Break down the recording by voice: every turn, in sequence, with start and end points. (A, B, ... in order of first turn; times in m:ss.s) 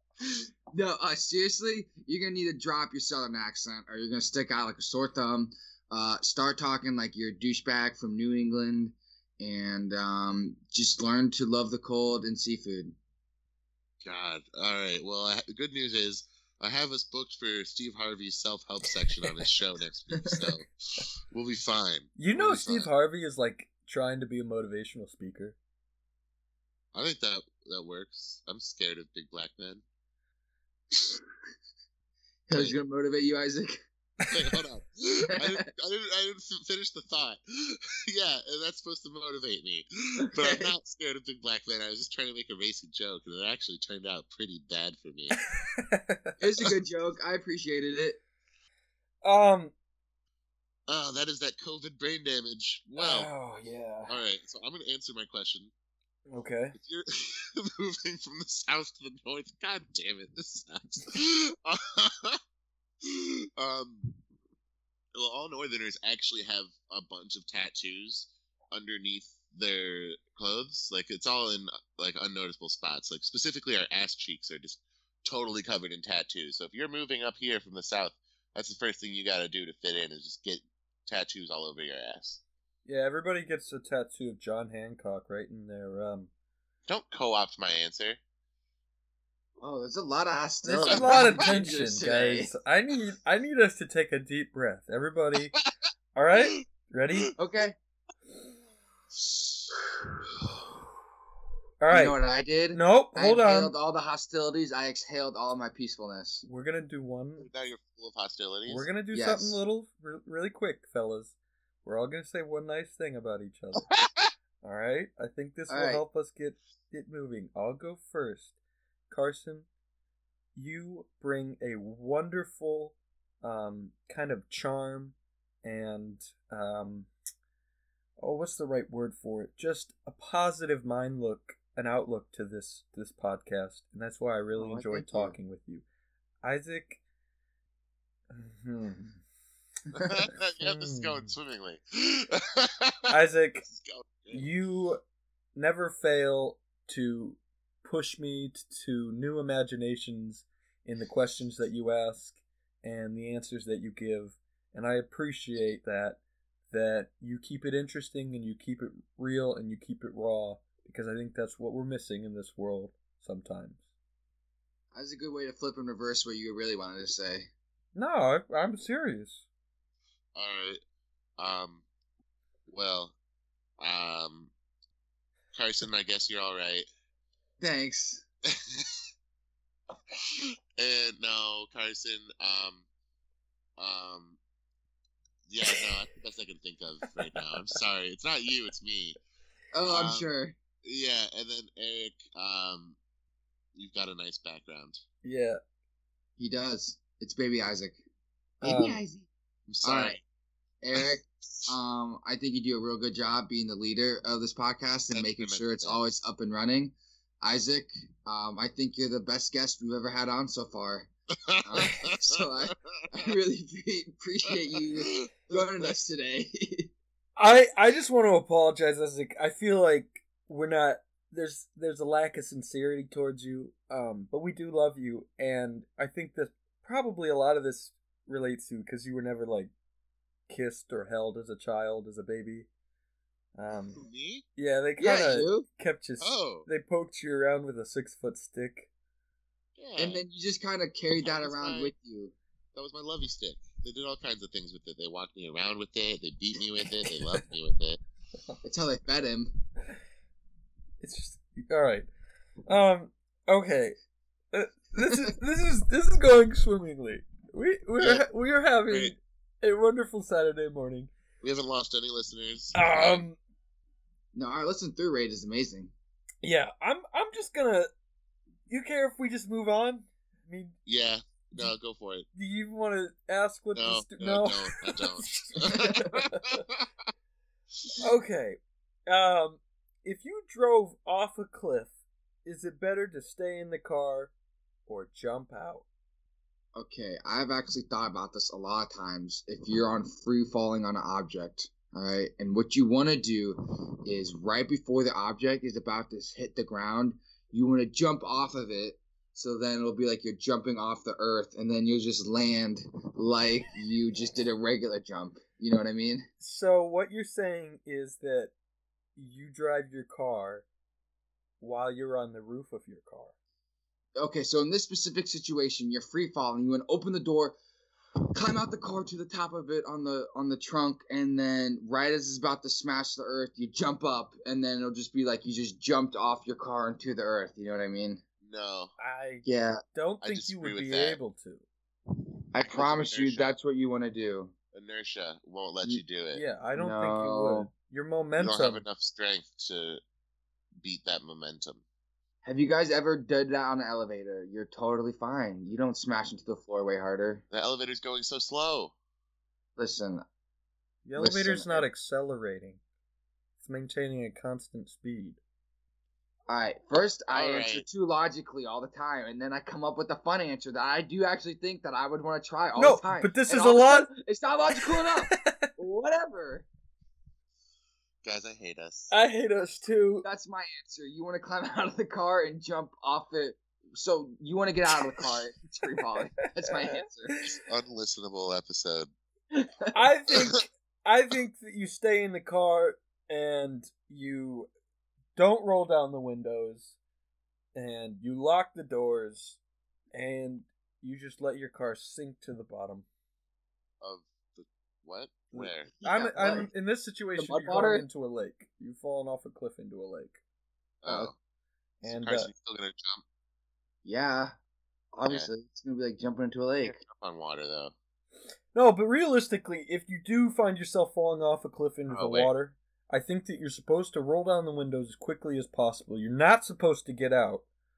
0:00.2-0:13.0 A
0:14.0-0:22.9 B
0:22.2-0:25.6 C
0:26.9-0:29.8 B
0:32.5-0:33.8 A
0:34.3-0:45.4 B
0:40.3-0:40.7 A
0:45.8-0:46.4 C
0:46.4-0:48.2 A
0:49.2-0:49.7 C
0:50.9-0:53.3 B
0:53.0-0:54.2 C
0:54.1-0:55.7 B
0:56.3-0:56.8 C
0:56.7-1:02.4 B
1:03.0-1:04.2 B
1:05.1-1:22.4 B
1:22.8-1:26.3 C
1:26.9-1:28.2 B
1:29.6-1:32.5 A
1:30.6-1:35.5 C
1:30.8-1:31.4 B
1:36.1-1:37.3 C
1:37.4-1:37.7 A
1:39.1-1:39.7 B
1:41.8-1:42.2 C
1:41.9-1:46.4 A
1:42.7-1:43.7 C
1:46.4-1:47.5 C
1:47.4-1:48.9 B
1:48.7-1:53.9 C
1:49.1-1:49.6 A
1:53.9-1:54.3 B
1:54.6-1:58.5 C
1:55.7-1:56.0 A
1:59.1-1:59.7 C
2:00.5-2:07.1 C
2:08.2-2:15.8 C
2:14.5-2:15.3 A
2:16.4-2:17.0 C
2:18.3-2:19.2 C
2:19.9-2:23.1 B
2:20.6-2:21.3 C
2:23.1-2:23.6 C
2:23.6-2:24.5 B
2:24.3-2:25.0 C
2:25.5-2:36.2 C
2:36.7-2:43.8 C
2:44.9-2:47.5 A
2:47.9-2:49.4 C
2:50.3-2:50.8 B
2:51.4-2:51.8 B
2:52.7-2:53.1 B
2:53.8-2:54.5 B
2:55.5-2:56.9 B
2:57.6-2:58.2 A
2:58.6-2:58.9 B
3:00.8-3:02.8 B
3:03.8-3:04.4 B
3:05.5-3:09.2 B
3:09.7-3:10.5 A
3:09.9-3:10.3 B
3:10.8-3:13.0 B
3:13.7-3:15.0 B
3:15.2-3:15.6 C
3:16.4-3:18.0 A
3:18.6-3:19.2 A
3:18.6-3:19.0 C
3:19.7-3:20.2 B
3:19.8-3:20.2 A
3:20.8-3:31.1 A
3:21.0-3:21.6 B
3:25.1-3:26.0 B
3:31.5-3:32.7 B
3:31.6-3:36.9 A
3:34.8-3:35.9 B
3:37.4-3:49.7 C
3:50.5-3:52.7 C
3:53.6-3:54.0 C
3:54.0-3:54.4 B
3:54.6-3:58.9 C
3:55.0-3:55.7 A
3:56.2-3:56.7 B
3:59.8-4:00.2 B
4:00.0-4:02.3 A
4:01.2-4:01.9 B
4:02.7-4:08.0 B
4:08.6-4:09.5 A
4:11.0-4:12.1 C
4:12.7-4:14.0 C
4:14.5-4:21.1 C
4:18.0-4:18.2 B
4:18.9-4:19.1 B
4:21.4-4:23.2 B
4:22.7-4:23.4 C
4:24.3-4:25.9 A
4:26.4-4:27.9 C
4:28.7-4:30.8 C
4:30.8-4:32.3 B
4:32.3-4:36.6 C
4:33.7-4:36.8 B
4:38.0-4:41.9 C
4:42.4-4:44.3 C
4:44.9-4:45.8 C
4:46.7-5:06.2 A
5:06.4-5:08.5 C
5:09.2-5:10.6 C
5:11.6-5:13.3 C
5:14.2-5:17.5 A
5:18.3-5:28.2 A
5:28.4-5:28.9 B
5:29.0-5:31.6 C
5:29.4-5:29.8 A
5:30.2-5:31.2 B
5:32.5-5:34.5 A
5:32.6-5:33.6 B
5:34.7-5:36.4 B
5:36.3-5:38.8 C
5:36.7-5:37.7 A
5:38.4-5:40.0 B
5:40.8-5:41.8 B
5:42.4-5:47.4 A
5:47.5-5:48.9 B
5:49.8-5:50.2 A
5:51.0-5:52.8 C
5:51.2-5:51.8 A
5:53.6-5:55.4 C
5:56.5-6:06.6 A
5:57.3-5:57.8 B
6:02.8-6:04.1 C
6:04.7-6:05.7 C
6:08.2-6:09.1 B
6:09.1-6:10.2 C
6:10.2-6:17.4 A
6:16.7-6:17.5 C
6:17.5-6:19.1 B
6:19.5-6:19.9 A
6:19.9-6:24.7 C
6:25.3-6:26.9 C
6:27.7-6:29.6 C
6:30.1-6:33.0 C
6:34.0-6:36.0 B
6:35.5-6:40.4 C
6:36.0-6:36.7 A
6:37.4-6:38.0 A
6:41.0-6:41.3 B
6:41.0-6:41.3 A
6:42.0-6:42.5 C
6:42.0-6:43.2 B
6:44.0-6:44.5 A
6:45.1-6:47.0 A
6:46.8-6:47.9 B
6:48.7-6:57.6 C
6:52.1-6:52.5 B